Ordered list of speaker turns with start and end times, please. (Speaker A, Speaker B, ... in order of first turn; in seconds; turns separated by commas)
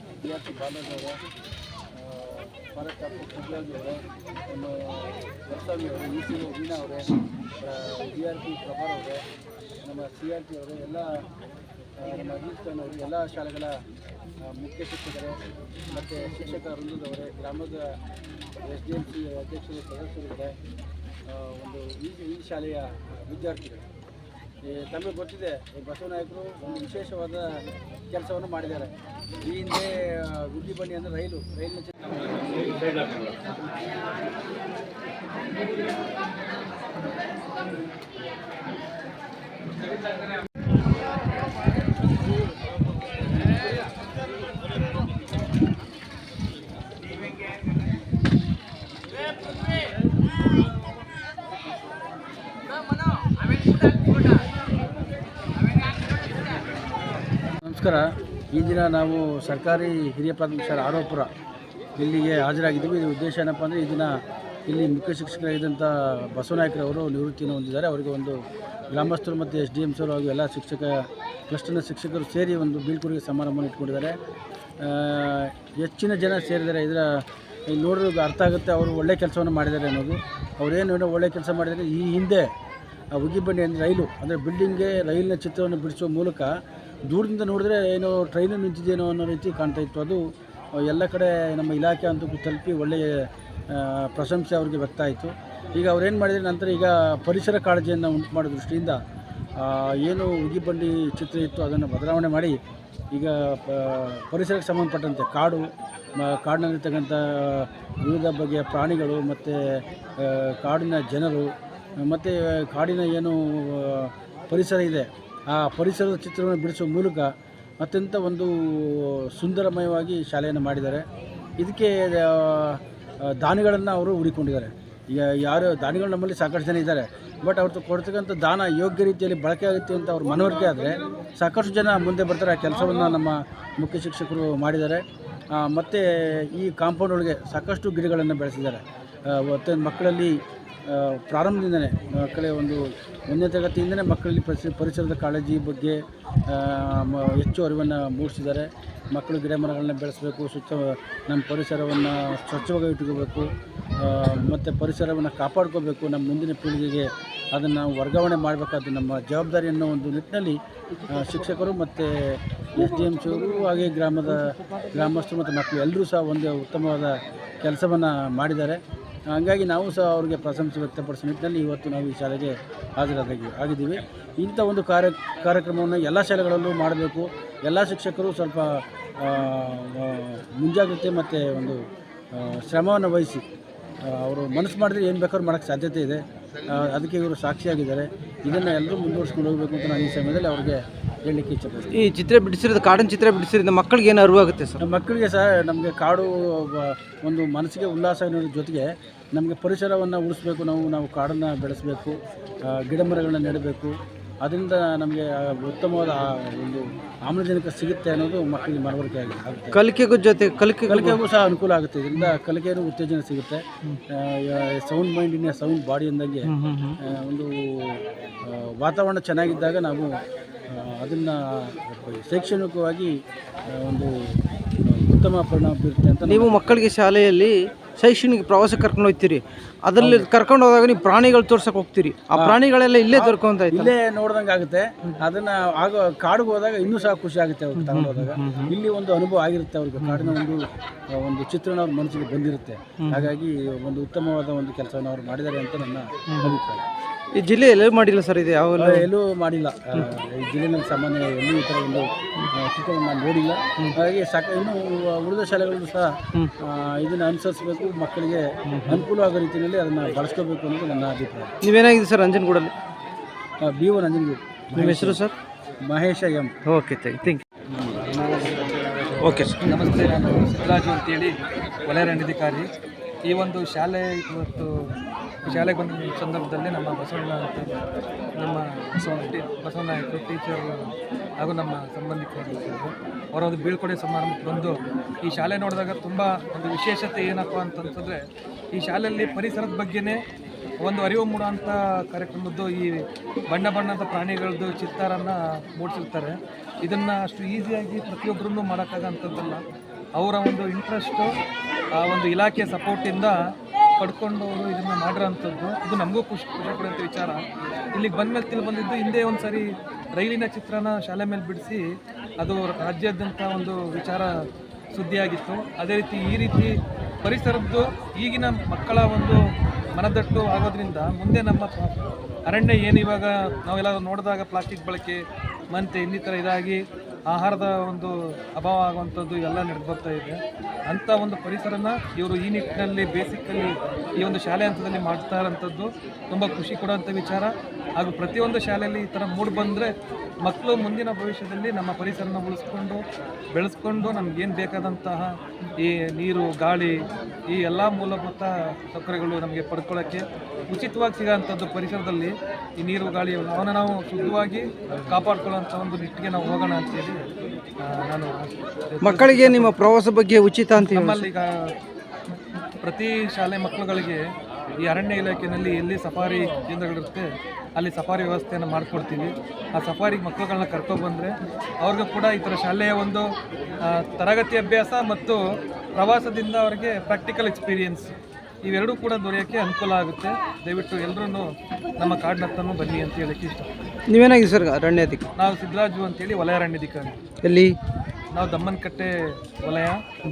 Speaker A: 0.2-1.2, Speaker A: 1.9-9.2, Speaker A: 9.8-11.3, Speaker A: 12.0-13.8, Speaker A: 14.4-18.0, Speaker A: 18.6-20.6, Speaker A: 21.3-23.8, Speaker A: 24.6-33.0, Speaker A: 57.6-61.3, Speaker A: 62.0-68.4, Speaker A: 68.9-74.2, Speaker A: 74.8-82.5, Speaker A: 83.1-86.5, Speaker A: 87.1-90.2, Speaker A: 90.8-99.0, Speaker A: 99.6-102.6, Speaker A: 103.1-121.0, Speaker A: 121.6-153.5, Speaker A: 154.0-181.8, Speaker A: 182.3-183.4, Speaker A: 184.1-192.0, Speaker B: 191.9-194.8, Speaker A: 194.8-209.8, Speaker B: 209.7-211.2, Speaker A: 210.9-220.2, Speaker B: 216.4-217.0, Speaker A: 220.7-223.2, Speaker A: 223.7-226.9, Speaker B: 226.2-233.9, Speaker A: 230.0-230.3, Speaker A: 232.3-246.8, Speaker B: 237.8-238.7, Speaker B: 240.0-240.3, Speaker B: 243.0-243.3, Speaker B: 246.3-246.6, Speaker B: 247.3-249.1, Speaker A: 248.8-261.5, Speaker B: 258.7-259.1, Speaker B: 261.6-262.7, Speaker A: 263.6-265.2, Speaker B: 264.8-265.3, Speaker A: 265.9-266.5, Speaker B: 266.6-267.4, Speaker C: 268.2-269.0, Speaker B: 269.2-269.7, Speaker C: 269.6-272.7, Speaker C: 273.2-274.9, Speaker C: 275.4-277.8, Speaker C: 278.4-288.2, Speaker C: 288.7-290.2, Speaker C: 290.8-299.6, Speaker C: 300.2-301.3, Speaker C: 302.0-303.4, Speaker C: 304.0-307.4, Speaker C: 307.9-311.9, Speaker C: 312.4-314.3, Speaker C: 314.9-319.4, Speaker C: 320.0-325.2, Speaker C: 325.7-339.9, Speaker C: 340.4-343.0, Speaker C: 343.5-347.0, Speaker C: 347.5-357.3, Speaker C: 357.8-359.8, Speaker B: 359.0-361.3, Speaker C: 360.8-361.7, Speaker C: 362.8-364.2, Speaker C: 364.8-373.3, Speaker C: 373.9-375.4, Speaker C: 376.0-378.1, Speaker C: 378.7-381.5, Speaker C: 382.0-383.7, Speaker B: 384.1-385.2, Speaker C: 385.4-387.2, Speaker B: 387.4-387.8, Speaker C: 388.3-390.0